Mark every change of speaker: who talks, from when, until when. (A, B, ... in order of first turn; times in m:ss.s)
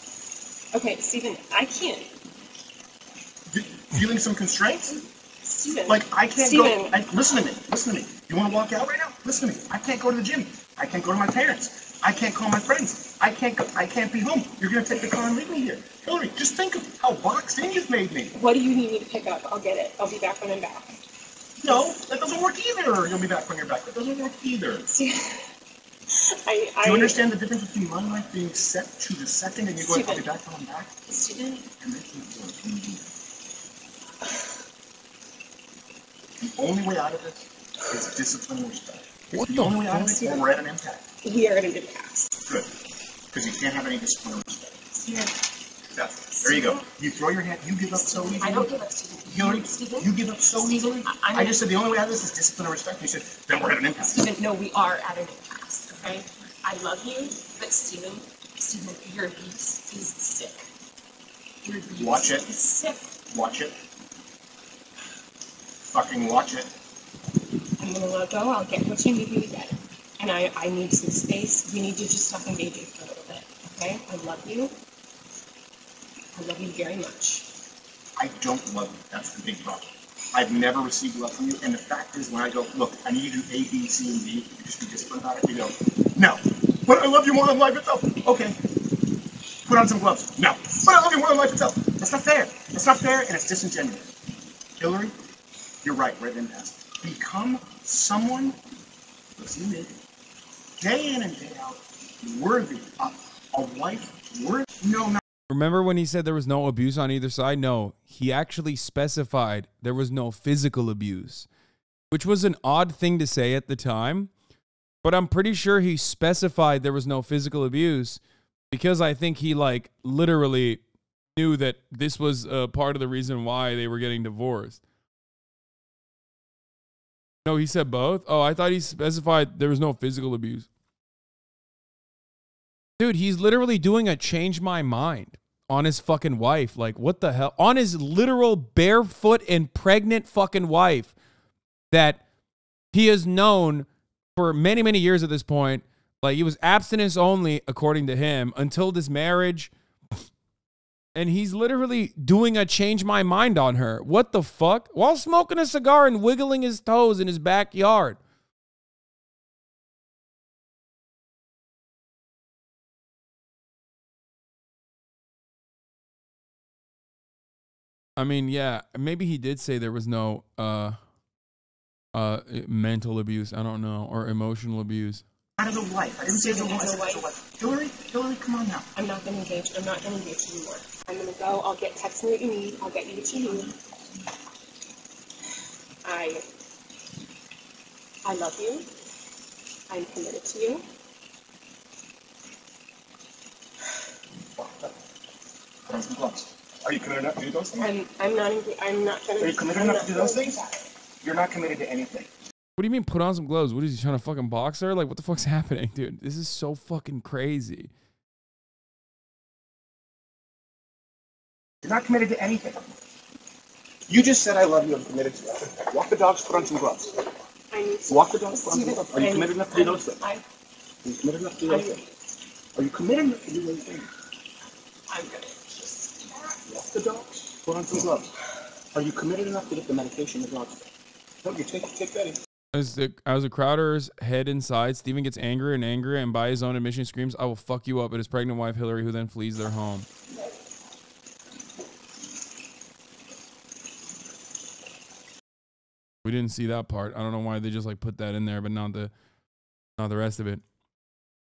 0:00.7-0:02.1 A
0:03.5-0:05.0 B
0:05.4-0:07.0 A
0:05.9-0:18.3 B
0:18.4-0:21.0 A
0:21.6-0:24.9 B
0:24.9-0:25.5 A
0:26.1-0:27.3 A
0:26.8-0:30.9 B
0:29.8-0:30.2 A
0:31.1-0:31.7 A
0:31.8-0:33.1 B
0:36.4-0:41.0 B
0:40.0-0:40.4 A
0:41.2-0:42.4 A
0:42.5-0:42.8 B
0:43.3-0:44.8 B
0:45.0-0:45.5 A
0:46.0-0:48.7 B
0:46.4-0:46.8 A
0:47.9-0:51.7 A
0:49.3-0:54.3 B
0:54.0-1:00.7 A
1:01.6-1:03.1 A
1:02.0-1:02.4 B
1:03.3-1:03.7 B
1:05.9-1:06.7 B
1:07.8-1:14.7 A
1:16.4-1:17.5 A
1:18.2-1:28.8 B
1:29.7-1:34.1 B
1:34.8-1:35.1 B
1:35.8-1:38.6 B
1:39.4-1:39.9 B
1:40.8-1:45.2 B
1:45.5-1:51.5 C
1:52.1-1:54.3 C
1:55.0-1:58.2 C
1:58.7-2:00.8 C
2:01.4-2:04.8 C
2:07.4-2:10.7 C
2:13.0-2:21.1 C
2:21.9-2:22.2 C
2:22.9-2:29.7 C
2:31.2-2:38.2 C
2:48.2-2:51.0 C
2:52.1-2:55.2 C
2:55.6-2:58.9 B
2:56.2-2:57.3 A
2:59.0-3:03.8 A
3:06.0-3:06.5 A
3:08.2-3:08.9 A
3:09.9-3:10.8 A
3:14.6-3:14.9 B
3:15.9-3:17.9 B
3:17.8-3:20.8 A
3:19.4-3:20.6 B
3:21.2-3:22.3 B
3:22.8-3:27.9 C
3:31.8-3:32.9 B
3:34.1-3:37.2 B
3:37.7-3:40.4 A
3:38.1-3:40.2 B
3:41.0-3:42.0 B
3:41.7-3:42.0 A
3:42.8-3:44.1 B
3:45.1-3:46.6 A
3:46.7-3:48.3 B
3:48.9-3:50.8 B
3:51.4-3:52.4 B
3:52.7-4:00.1 C
4:06.2-4:09.1 C
4:10.0-4:10.6 C